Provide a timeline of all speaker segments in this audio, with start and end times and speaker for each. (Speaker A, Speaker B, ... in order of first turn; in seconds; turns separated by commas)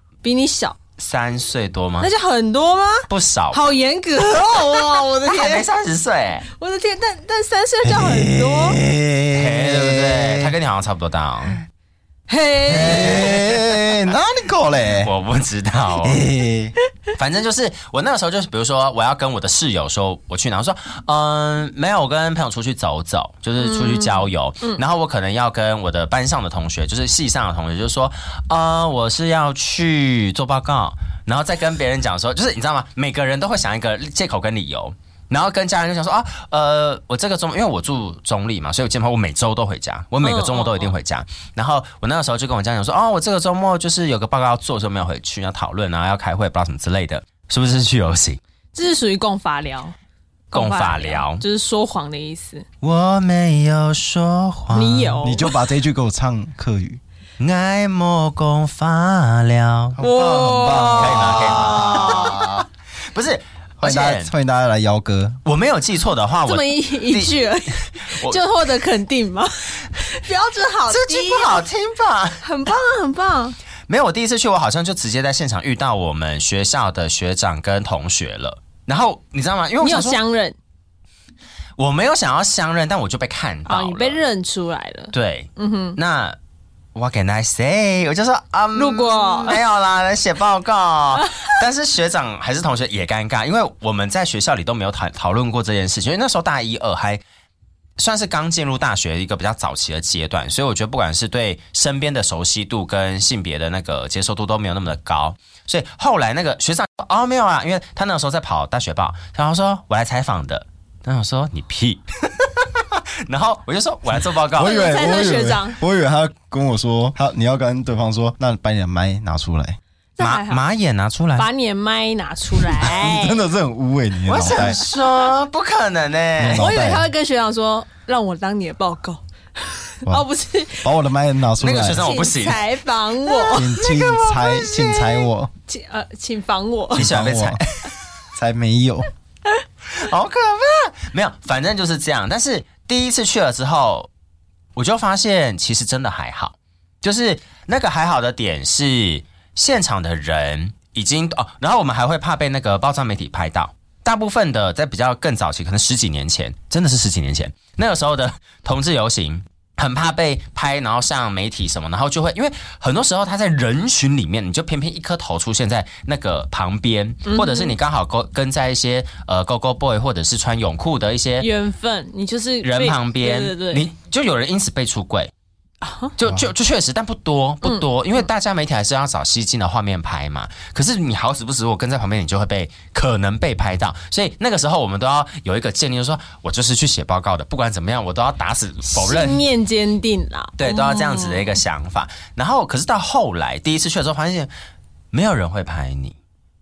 Speaker A: 0.2-0.8, Speaker B: 1.0-2.1, Speaker A: 2.0-5.7, Speaker B: 3.1-3.6, Speaker B: 4.5-6.5, Speaker A: 6.5-8.8, Speaker C: 7.8-10.5, Speaker B: 9.3-11.6, Speaker A: 12.3-13.3, Speaker C: 12.7-15.1, Speaker B: 12.7-13.9, Speaker B: 14.9-16.2, Speaker C: 16.0-16.8, Speaker B: 17.1-48.4, Speaker A: 23.6-24.8, Speaker A: 40.2-40.9, Speaker A: 48.8-50.0, Speaker A: 50.5-52.7, Speaker B: 50.5-51.4, Speaker B: 52.8-55.2, Speaker A: 54.7-55.5, Speaker C: 55.2-57.0, Speaker B: 57.4-60.0, Speaker C: 60.0-62.7, Speaker A: 60.0-62.4, Speaker B: 61.0-62.6, Speaker B: 63.1-64.3, Speaker C: 63.8-65.4, Speaker B: 65.5-68.4, Speaker A: 66.5-71.6, Speaker B: 70.9-72.4, Speaker A: 72.4-73.6, Speaker B: 73.9-80.2, Speaker A: 79.8-80.6, Speaker B: 81.8-84.2, Speaker A: 83.7-86.0, Speaker B: 85.1-86.4, Speaker B: 87.0-97.2, Speaker A: 88.8-89.6, Speaker B: 98.0-114.8, Speaker C: 114.5-119.8, Speaker A: 114.6-115.8, Speaker A: 120.2-120.6, Speaker B: 120.2-121.5, Speaker A: 121.4-123.4, Speaker C: 122.8-124.8, Speaker B: 124.3-126.8, Speaker C: 126.4-127.1, Speaker A: 126.6-130.9, Speaker C: 130.8-132.1, Speaker B: 131.6-132.7, Speaker A: 131.7-137.1, Speaker C: 133.5-135.5, Speaker B: 136.9-137.9, Speaker C: 137.0-137.6, Speaker C: 138.3-139.1, Speaker B: 139.9-144.1, Speaker B: 144.8-171.5, Speaker A: 167.3-167.7, Speaker A: 171.4-173.9, Speaker B: 172.6-175.3, Speaker A: 175.8-176.1, Speaker B: 176.2-189.5, Speaker A: 188.9-191.6, Speaker B: 190.6-194.5, Speaker B: 195.1-196.2